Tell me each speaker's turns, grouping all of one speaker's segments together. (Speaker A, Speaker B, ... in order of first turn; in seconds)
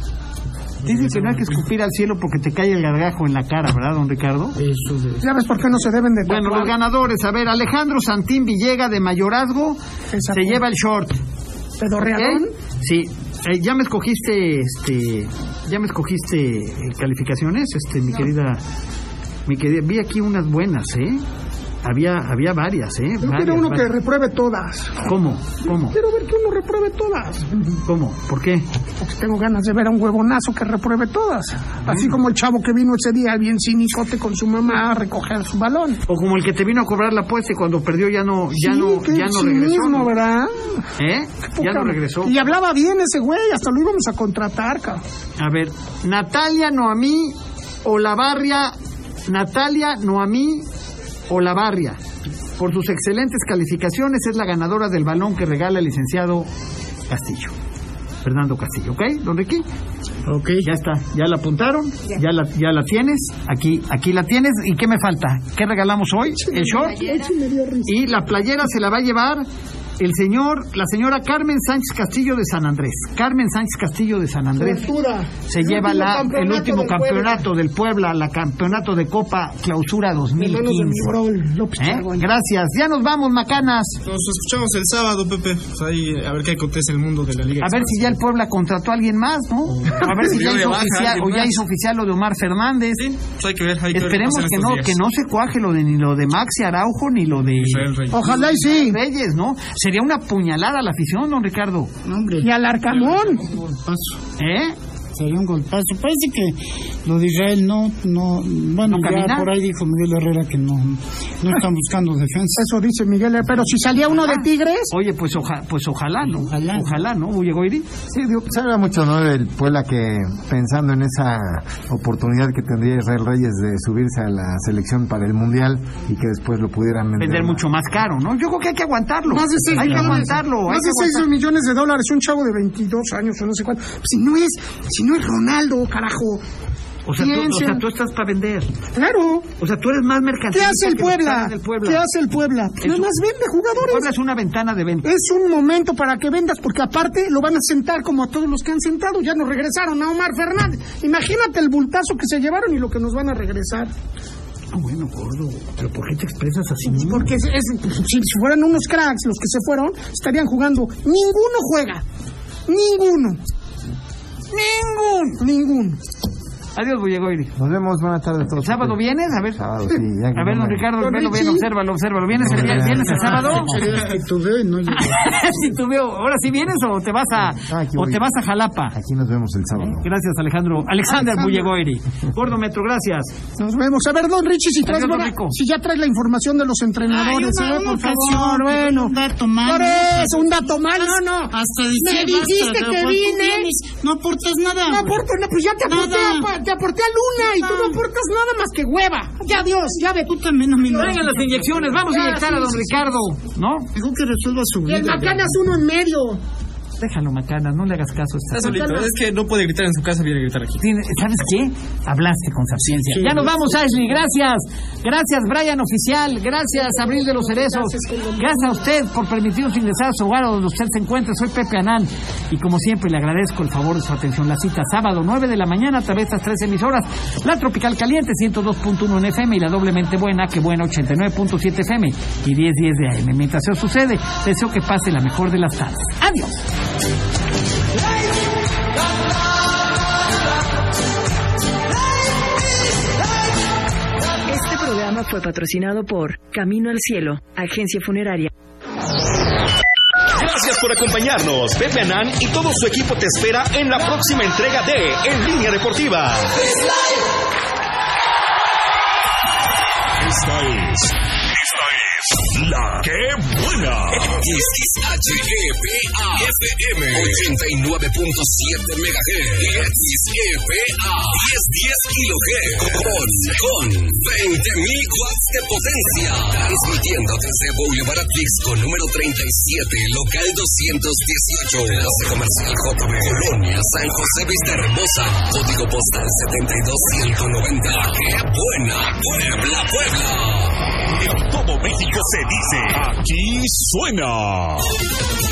Speaker A: 0.8-1.6, 84.0-88.2, 89.7-91.6, 93.0-95.0, 97.6-98.5, 103.0-103.4, 208.5-210.8
Speaker B: 0.8-4.6, 6.2-11.2, 12.1-18.6, 19.4-21.2, 21.8-23.9, 25.0-26.0, 27.9-28.6, 36.1-40.1, 41.0-42.4, 45.4-48.7, 49.3-50.6, 51.3-52.0, 52.6-56.5, 57.1-57.5, 58.2-59.6, 60.6-67.1, 67.9-69.5, 70.0-74.9, 75.5-81.1, 81.8-84.0, 87.6-93.0, 93.9-101.9, 104.4-104.8, 108.9-109.5, 114.2-117.9, 127.2-131.3, 137.1-138.7, 139.6-142.0, 142.8-143.1, 143.8-145.1, 154.7-157.2, 164.5-165.4, 166.7-167.5, 168.6-169.6, 170.3-173.8, 174.9-178.9, 179.8-183.3, 184.8-185.6, 200.9-203.9, 207.0-209.1, 210.8-236.6
Speaker C: 4.5-5.2, 60.2-60.7, 102.0-102.5, 103.6-104.2, 105.2-112.7, 116.2-117.0, 172.7-175.5, 187.0-195.2, 195.8-196.5, 197.4-198.0, 200.2-202.9, 203.9-205.6, 213.1-214.2
Speaker D: 5.2-6.7, 10.1-10.6, 11.8-12.5, 23.2-25.1, 25.9-27.7, 29.0-36.0, 38.6-40.8, 41.6-45.0, 66.4-67.9, 74.6-77.4, 80.4-82.3, 98.1-99.0, 102.4-103.5, 112.5-114.9, 129.3-136.4, 137.2-137.8, 138.9-139.5, 140.5-144.1, 145.0-153.9, 156.8-162.0, 162.7-163.4, 165.4-166.0, 171.0-171.7, 181.1-181.7, 183.6-193.7, 194.8-201.2, 202.0-202.8, 204.8-206.4, 216.7-218.8
Speaker E: 118.1-127.7, 167.6-170.9, 172.3-173.9, 177.5-178.3, 178.9-180.1
Speaker F: 244.5-248.5
Speaker G: 250.3-256.6
Speaker H: 260.2-261.1, 261.6-264.5, 291.1-294.9
Speaker I: 264.2-290.8